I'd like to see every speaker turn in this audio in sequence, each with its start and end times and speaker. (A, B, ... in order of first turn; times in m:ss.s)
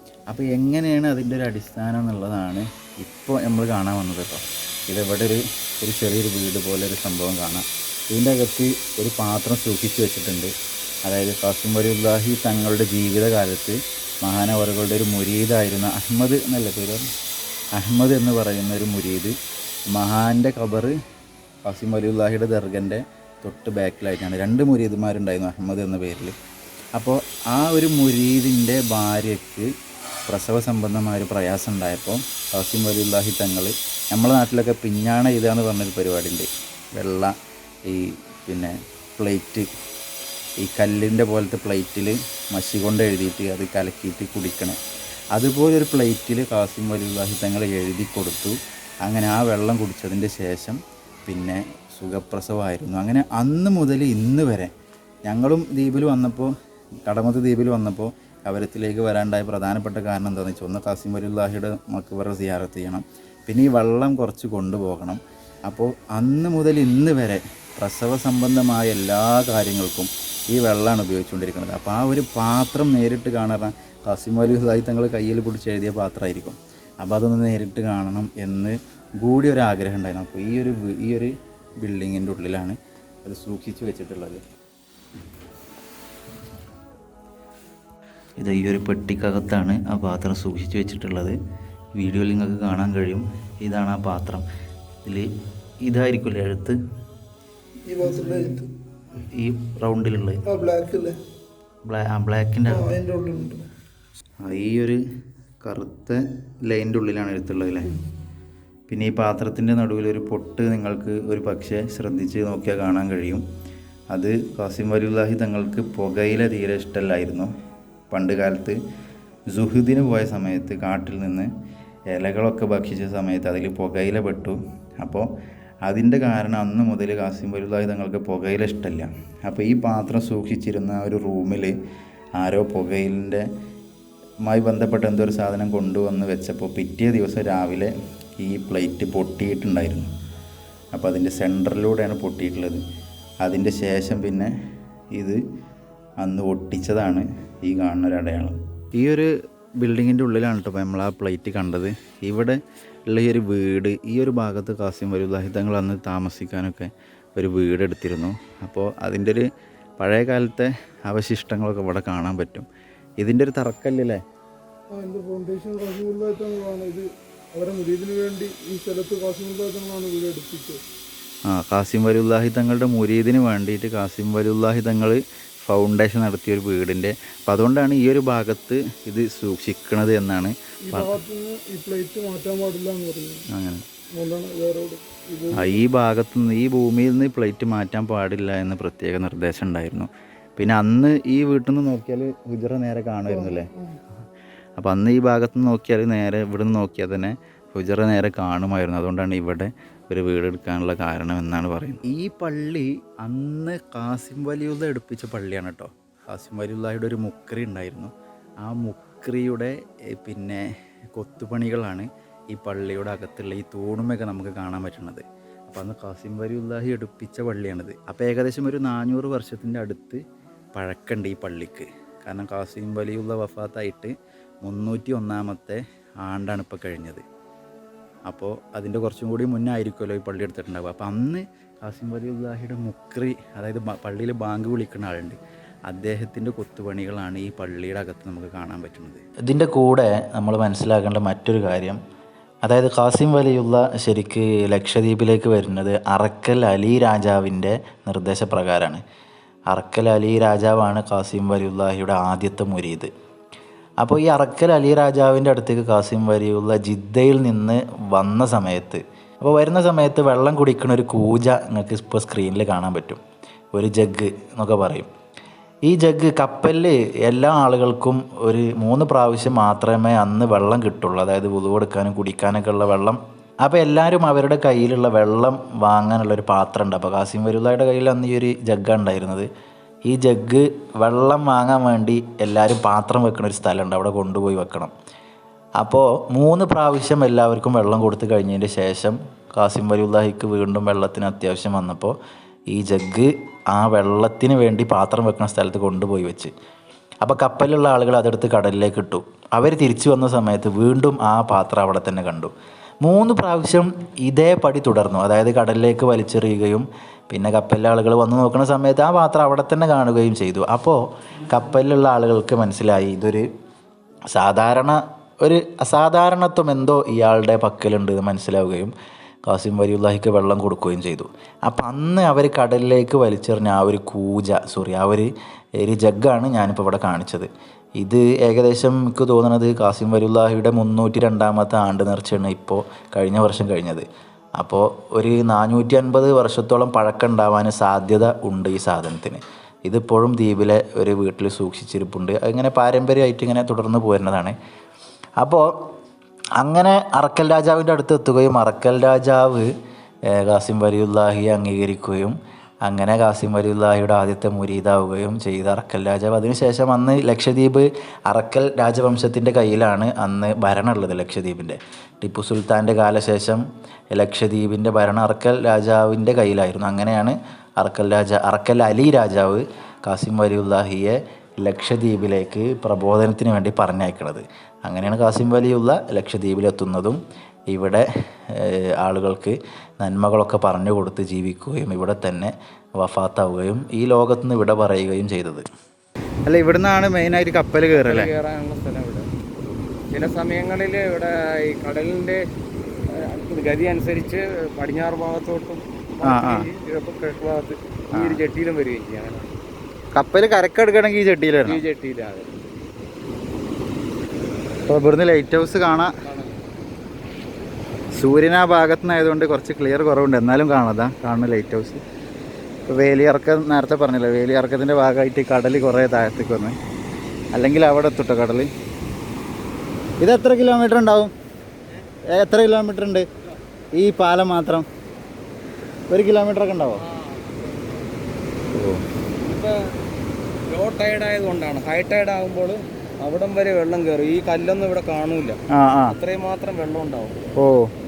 0:00.3-0:10.5 A
0:11.0-0:17.0 A
0:17.7-0:19.3 A
0:19.9-0:20.9 A
0:21.6-0:26.3 A
0:27.0-0:29.7 A
0:30.3-0:37.3 A
0:37.9-0:39.7 A
0:40.6-0:44.8 A
0:45.3-0:54.7 A
0:55.3-0:56.5 A
0:57.1-1:24.4 A
1:28.4-1:31.4 A
1:32.0-1:34.4 A
1:35.0-1:35.3 A
1:35.8-1:36.8 A
1:37.8-1:38.7 B
1:38.1-1:38.4 A
1:39.3-1:40.4 A
1:40.5-1:41.2 B
1:41.8-1:43.0 A
1:42.7-1:43.6 B
1:44.4-1:45.0 A
1:45.6-1:48.0 A
1:48.9-1:53.4 A
1:54.1-1:57.5 A
1:58.1-1:58.8 A
1:59.5-2:01.5 A
2:02.1-2:05.3 A
2:05.8-2:11.7 A
2:12.4-2:13.4 A
2:14.4-2:20.1 A
2:20.9-2:22.8 A
2:23.4-2:24.5 A
2:25.1-2:25.4 A
2:26.2-2:39.4 A
2:40.0-2:42.7 A
2:43.2-2:44.2 A
2:44.9-2:50.8 B
2:51.5-3:01.2 A
3:00.9-3:03.5 B
3:03.5-3:03.8 A
3:04.1-3:05.8 B
3:05.5-3:13.7 A
3:13.3-3:14.0 B
3:14.8-3:28.1 A
3:28.6-3:30.6 A
3:31.2-3:40.2 A
3:40.7-3:44.1 A
3:44.6-3:47.2 A
3:48.3-3:55.4 A
3:55.9-4:02.0 A
4:02.6-4:09.0 A
4:09.7-4:13.1 A
4:14.0-4:23.2 A
4:23.7-4:25.1 A
4:25.9-4:39.5 A
4:40.1-4:44.9 A
4:45.8-4:52.2 A
4:52.7-4:56.5 A
4:57.2-5:02.5 A
5:03.0-5:13.4 A
5:14.3-5:18.9 A
5:19.5-5:34.0 A
5:34.6-5:44.6 A
5:45.4-5:45.7 A
5:46.6-5:49.7 A
5:50.3-6:17.2 A
6:17.7-6:25.6 A
6:26.5-6:28.3 A
6:27.9-6:29.3 C
6:30.1-6:32.4 C
6:33.1-6:39.5 C
6:36.2-6:36.7 A
6:38.1-6:38.4 A
6:40.2-6:41.8 A
6:41.6-6:42.5 C
6:44.8-6:46.1 A
6:46.2-6:46.6 C
6:48.1-6:52.0 A
6:52.9-6:56.7 A
6:57.5-6:58.7 A
7:00.2-7:01.3 A
7:02.3-7:03.2 A
7:04.0-7:04.8 A
7:06.1-7:07.0 A
7:07.0-7:08.0 C
7:08.7-7:09.0 A
7:09.4-7:09.7 C
7:10.7-7:17.4 C
7:15.7-7:16.2 A
7:17.6-7:17.9 A